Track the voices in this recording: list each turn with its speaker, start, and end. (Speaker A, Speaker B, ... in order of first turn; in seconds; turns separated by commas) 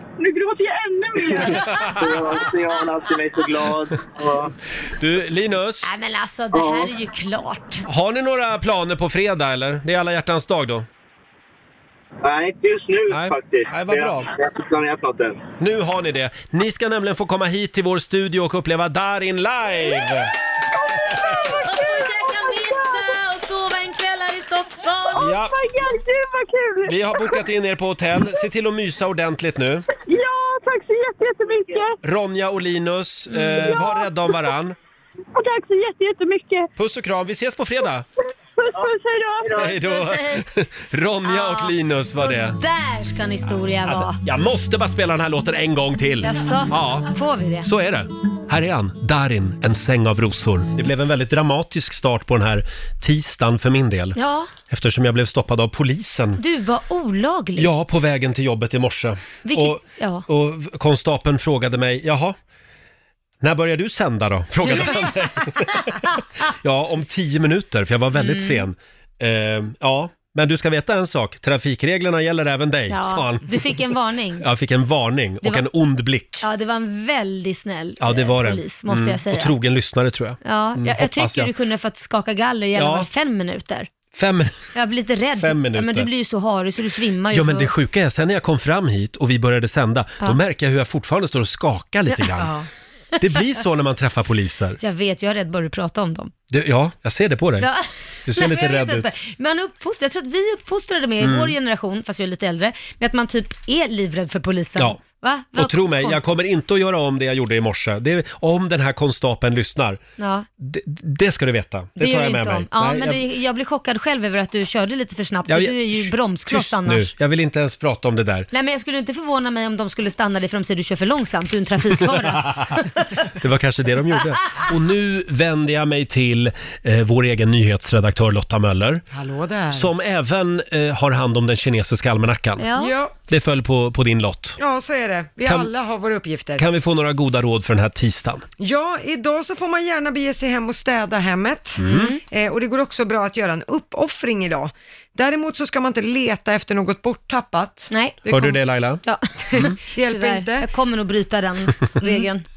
Speaker A: 0.2-2.0, Speaker B: 1.2-4.5, Speaker C: 5.0-5.9, Speaker D: 5.8-7.8, Speaker B: 6.5-6.9, Speaker C: 7.8-10.9, Speaker B: 12.2-15.4, Speaker C: 13.1-14.3, Speaker C: 15.6-20.3, Speaker C: 21.0-21.4, Speaker D: 21.1-25.3, Speaker A: 21.3-23.1, Speaker A: 25.1-27.3, Speaker C: 25.1-25.6, Speaker C: 26.8-29.9, Speaker A: 30.0-31.9, Speaker C: 32.0-34.8, Speaker A: 33.7-34.1, Speaker A: 35.3-36.7, Speaker C: 36.8-38.0, Speaker A: 38.7-39.7, Speaker B: 39.4-39.7, Speaker C: 39.5-42.6, Speaker D: 39.7-40.4, Speaker D: 41.2-44.2, Speaker C: 43.9-54.2, Speaker D: 46.2-47.7, Speaker D: 54.1-54.5, Speaker C: 54.7-56.4, Speaker D: 56.4-57.7, Speaker C: 57.6-62.4, Speaker D: 59.4-60.2, Speaker C: 63.4-73.8, Speaker D: 64.6-66.1, Speaker D: 68.2-68.7, Speaker D: 72.9-74.5, Speaker C: 74.4-76.5, Speaker D: 76.4-79.5, Speaker C: 78.0-81.5, Speaker D: 80.4-83.9, Speaker C: 82.7-83.1, Speaker C: 84.1-84.7, Speaker D: 84.7-87.7, Speaker C: 85.4-86.1, Speaker C: 87.3-92.5, Speaker D: 92.1-92.7, Speaker C: 93.2-94.8, Speaker D: 94.8-96.3, Speaker C: 96.5-97.7, Speaker D: 97.6-106.3, Speaker C: 98.2-99.1, Speaker C: 101.2-101.5, Speaker C: 105.5-110.0, Speaker D: 110.2-110.5, Speaker C: 110.6-113.2, Speaker D: 112.0-117.1, Speaker C: 115.5-118.5, Speaker D: 118.5-123.0, Speaker C: 122.0-129.0, Speaker E: 129.1-129.9, Speaker C: 129.7-132.7, Speaker D: 132.6-132.9, Speaker E: 132.7-133.1, Speaker C: 133.3-134.6, Speaker E: 134.6-136.6, Speaker C: 135.4-135.7, Speaker C: 136.6-138.4, Speaker E: 138.6-148.6, Speaker C: 141.8-142.1, Speaker D: 141.8-142.2, Speaker D: 147.9-148.2, Speaker C: 148.3-149.0, Speaker D: 149.0-152.4, Speaker E: 149.5-150.7